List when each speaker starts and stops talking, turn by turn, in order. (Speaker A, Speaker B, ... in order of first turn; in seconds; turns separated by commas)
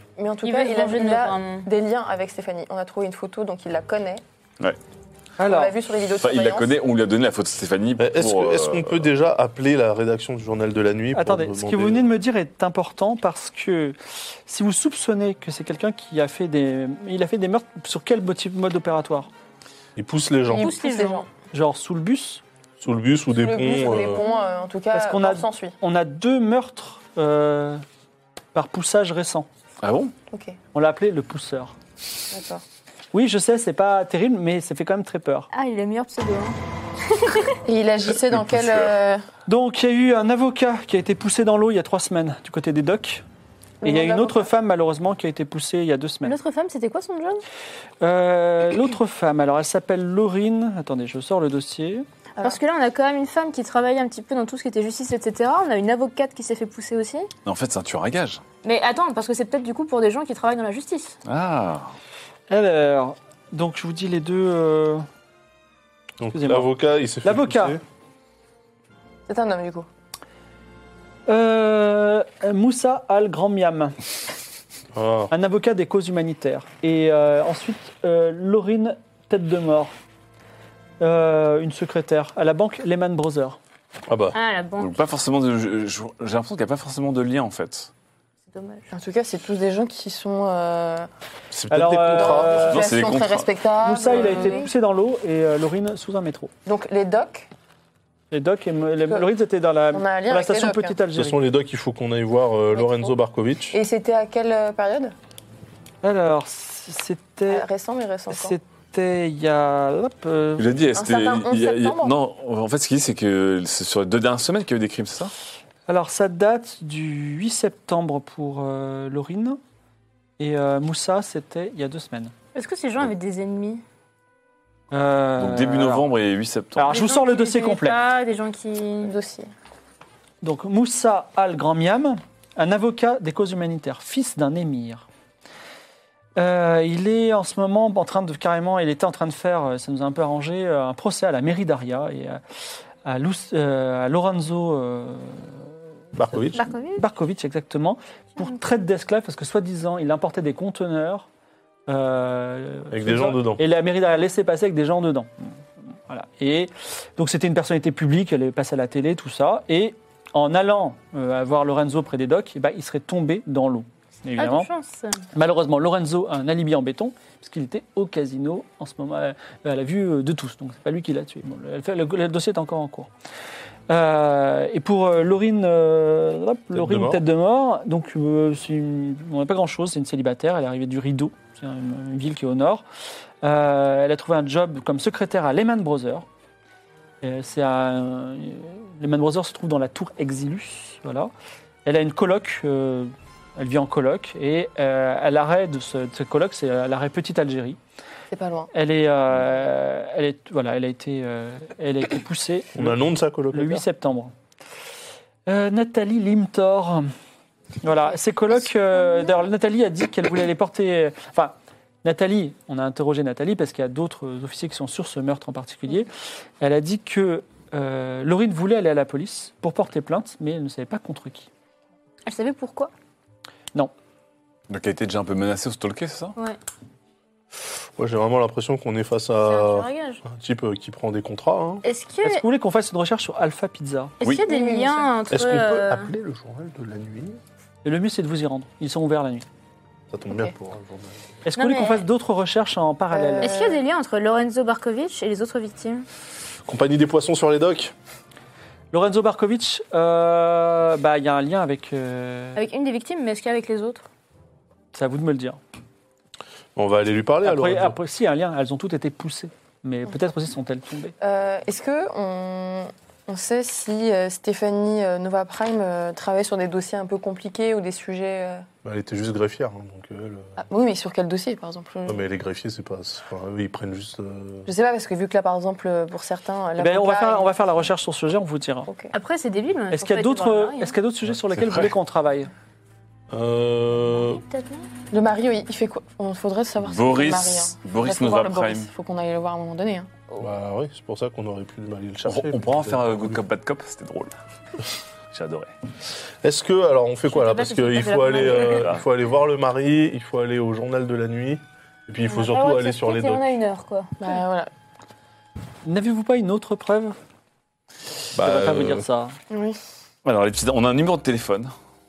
Speaker A: 0.2-4.2, Speaker B: 0.4-1.7, Speaker C: 5.4-5.7, Speaker A: 5.4-6.8, Speaker D: 6.2-9.1, Speaker E: 8.0-12.1, Speaker C: 11.1-19.3, Speaker E: 19.9-20.7, Speaker A: 20.4-21.3, Speaker B: 20.6-21.3, Speaker C: 21.5-22.4, Speaker E: 22.8-24.2, Speaker A: 23.3-25.7, Speaker C: 24.9-27.8, Speaker C: 28.5-29.5, Speaker D: 29.8-30.1, Speaker A: 30.3-30.6, Speaker C: 30.7-31.7, Speaker A: 32.3-32.6, Speaker C: 33.1-35.5, Speaker B: 35.5-36.5, Speaker B: 37.1-37.6, Speaker A: 37.6-39.2, Speaker E: 38.5-38.8, Speaker C: 39.5-43.2, Speaker A: 43.8-44.5, Speaker C: 43.8-46.4, Speaker B: 46.2-47.4, Speaker C: 48.0-52.0, Speaker B: 52.4-57.3, Speaker D: 57.4-58.4, Speaker B: 58.6-61.1, Speaker D: 61.2-61.9, Speaker C: 62.5-65.0, Speaker E: 66.2-67.8, Speaker C: 66.3-67.8, Speaker A: 69.3-69.9, Speaker C: 71.3-74.0, Speaker E: 74.9-75.3, Speaker C: 75.3-79.9, Speaker C: 81.0-83.6, Speaker E: 84.1-84.3, Speaker B: 84.3-84.9, Speaker D: 84.8-87.9, Speaker B: 88.5-88.9, Speaker A: 88.9-91.1, Speaker E: 91.5-92.7, Speaker C: 91.7-92.8, Speaker A: 92.1-94.6, Speaker D: 92.7-93.5, Speaker C: 93.8-96.5, Speaker B: 94.1-94.7, Speaker A: 96.7-97.5, Speaker C: 98.3-101.4, Speaker A: 99.9-101.0, Speaker E: 101.1-103.8, Speaker A: 102.7-103.1, Speaker A: 103.7-105.1, Speaker C: 106.0-107.7, Speaker A: 107.5-108.6, Speaker C: 108.3-110.7, Speaker D: 110.6-115.3, Speaker A: 110.9-112.1, Speaker C: 115.9-119.6, Speaker C: 120.4-122.3, Speaker B: 122.5-123.8, Speaker C: 124.9-126.1, Speaker D: 125.4-127.0, Speaker C: 126.8-128.0, Speaker B: 126.9-129.1, Speaker A: 129.0-129.5, Speaker C: 130.4-135.1, Speaker C: 136.4-142.4, Speaker C: 143.0-145.7, Speaker E: 146.1-146.6, Speaker C: 146.3-151.2, Speaker B: 146.5-147.0, Speaker C: 151.9-155.5, Speaker E: 152.9-153.6, Speaker C: 156.1-164.7, Speaker B: 164.4-165.2, Speaker C: 165.3-173.1, Speaker C: 173.9-182.8, Speaker E: 176.7-177.2, Speaker C: 183.4-186.2, Speaker C: 187.2-191.3, Speaker C: 191.8-197.8, Speaker A: 198.3-198.7, Speaker C: 198.7-204.3, Speaker E: 202.8-203.8, Speaker C: 205.5-207.1, Speaker C: 207.8-216.1, Speaker C: 216.6-221.5, Speaker B: 222.2-222.9, Speaker D: 224.7-226.4, Speaker E: 228.0-231.8, Speaker B: 229.4-230.2, Speaker B: 231.8-232.4, Speaker C: 232.2-234.1, Speaker B: 234.2-236.1, Speaker A: 234.4-235.1, Speaker E: 235.3-237.4, Speaker C: 237.8-239.4, Speaker E: 240.1-241.2, Speaker C: 241.4-243.5, Speaker B: 241.6-242.0, Speaker A: 243.1-243.8, Speaker B: 243.4-246.0, Speaker E: 246.7-247.9, Speaker C: 248.9-252.6, Speaker B: 252.6-254.0, Speaker C: 254.9-255.6, Speaker E: 256.8-257.9, Speaker C: 257.4-261.1, Speaker A: 261.2-268.6, Speaker E: 268.8-270.5, Speaker A: 270.6-272.2, Speaker E: 272.1-274.7, Speaker A: 274.6-277.6, Speaker C: 276.8-278.9, Speaker A: 278.9-279.1, Speaker B: 279.1-280.9, Speaker C: 279.9-282.5, Speaker D: 281.5-281.9, Speaker E: 283.3-284.4, Speaker B: 284.1-284.9, Speaker A: 285.1-290.1, Speaker D: 286.8-288.9, Speaker E: 290.4-293.4, Speaker D: 292.2-294.3, Speaker D: 295.3-295.7, Speaker E: 296.4-303.4, Speaker B: 297.3-298.9, Speaker D: 298.4-299.0, Speaker B: 302.2-304.4, Speaker A: 304.2-304.7, Speaker C: 305.8-307.1, Speaker E: 308.3-309.0, Speaker C: 308.4-309.4, Speaker A: 309.5-309.8, Speaker D: 310.2-311.7